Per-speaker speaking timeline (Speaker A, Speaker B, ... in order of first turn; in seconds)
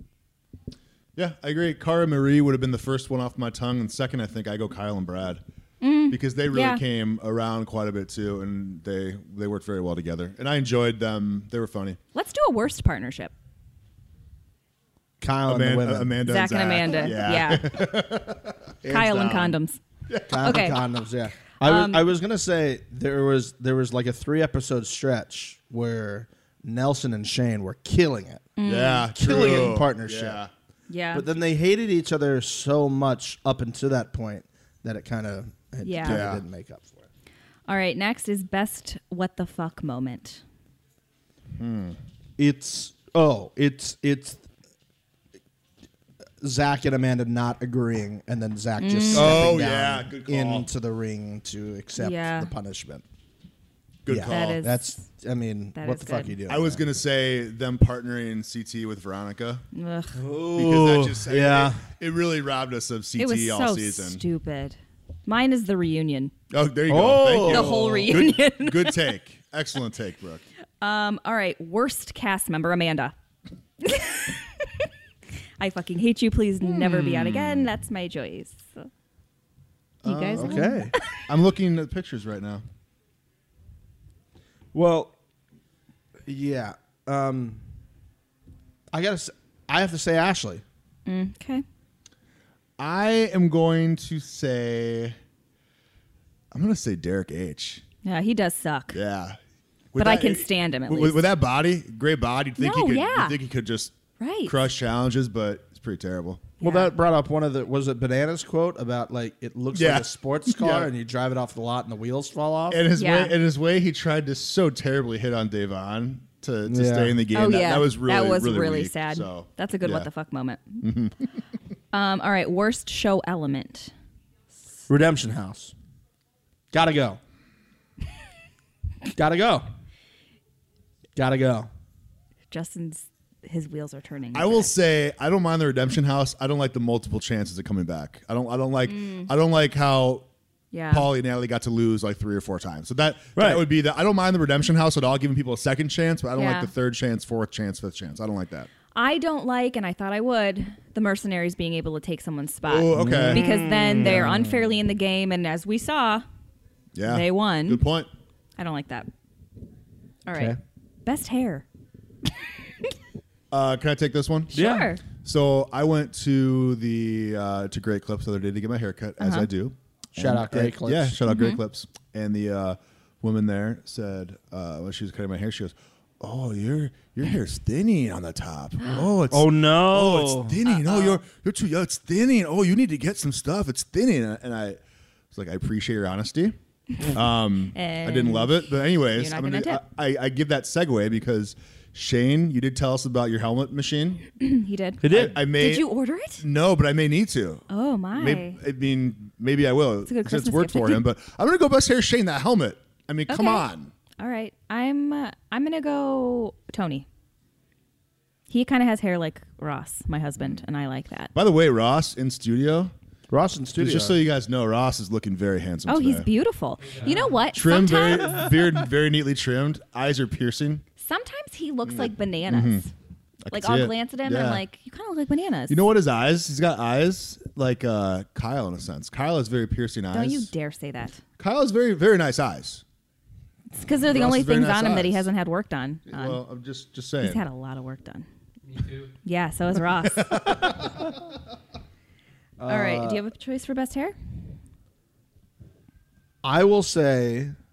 Speaker A: 1.1-5.4, 6.1-12.0, 15.5-19.6, 20.1-20.8, 28.6-30.5, 36.0-36.4, 41.6-42.0, 49.1-50.7, 54.0-54.6, 56.5-59.6, 60.5-64.2, 66.5-70.4, 76.6-77.7, 80.0-82.6, 92.8-95.2, 96.5-97.8, 98.9-99.4, 99.9-103.9, 104.5-106.5, 109.7-110.9, 112.7-120.1, 120.8-121.3, 134.3-140.3, 140.9-148.7, 152.7-153.4, 154.0-154.3, 156.9-158.1, 163.5-164.6, 165.2-184.8, 185.3-194.2, 195.0-195.9, 196.4-203.9, 211.3-212.9, 213.8-216.3, 217.5-220.8, 221.8-222.8, 223.4-224.6, 225.7-230.5, 231.4-232.8, 234.0-235.3, 236.1-237.4, 240.1-241.0
Speaker B: 5.8-6.8, 12.1-13.3, 16.2-17.8, 18.9-19.8, 20.4-20.8, 21.6-22.1, 28.6-29.1, 30.9-31.2, 35.8-36.2, 37.7-40.4, 48.8-49.5, 52.0-52.5, 54.3-55.0, 55.8-56.3, 59.7-60.2, 63.2-66.3, 67.5-69.1, 70.8-73.1, 73.8-74.9, 75.6-78.9, 80.0-81.2, 91.0-91.6, 98.0-99.0, 100.0-101.2, 102.6-103.4, 104.2-104.5, 106.6-106.9, 113.0-113.3, 117.3-120.8, 121.9-123.9, 132.5-134.7, 138.9-139.3, 140.7-141.1, 146.3-146.7, 148.9-156.2, 157.1-157.8, 158.6-159.1, 160.2-161.6, 164.5-165.0, 169.2-169.5, 171.3-171.6, 180.7-181.2, 187.7-188.6, 189.1-189.8, 194.3-196.4, 197.7-198.6, 200.1-201.0, 203.3-203.6, 204.2-207.1, 208.5-211.3, 215.9-218.5, 221.0-222.9, 223.5-225.8, 230.1-231.2, 233.7-236.4, 237.2-238.3, 239.0-240.8, 242.7-244.1
Speaker C: 15.2-16.1, 20.3-28.5, 29.1-30.4, 31.1-37.0, 42.4-44.4, 46.4-53.0, 54.1-56.9, 60.2-61.8, 66.9-68.2, 80.3-80.9, 84.7-85.1, 86.2-87.6, 88.9-90.6, 106.6-112.8, 116.7-117.2, 124.9-125.7, 126.7-127.2, 129.1-129.6, 131.2-131.7, 143.3-143.6, 152.9-154.6, 164.5-164.9, 170.2-171.2, 179.3-180.6, 195.0-195.4, 213.3-214.2, 242.6-243.2, 246.4-247.5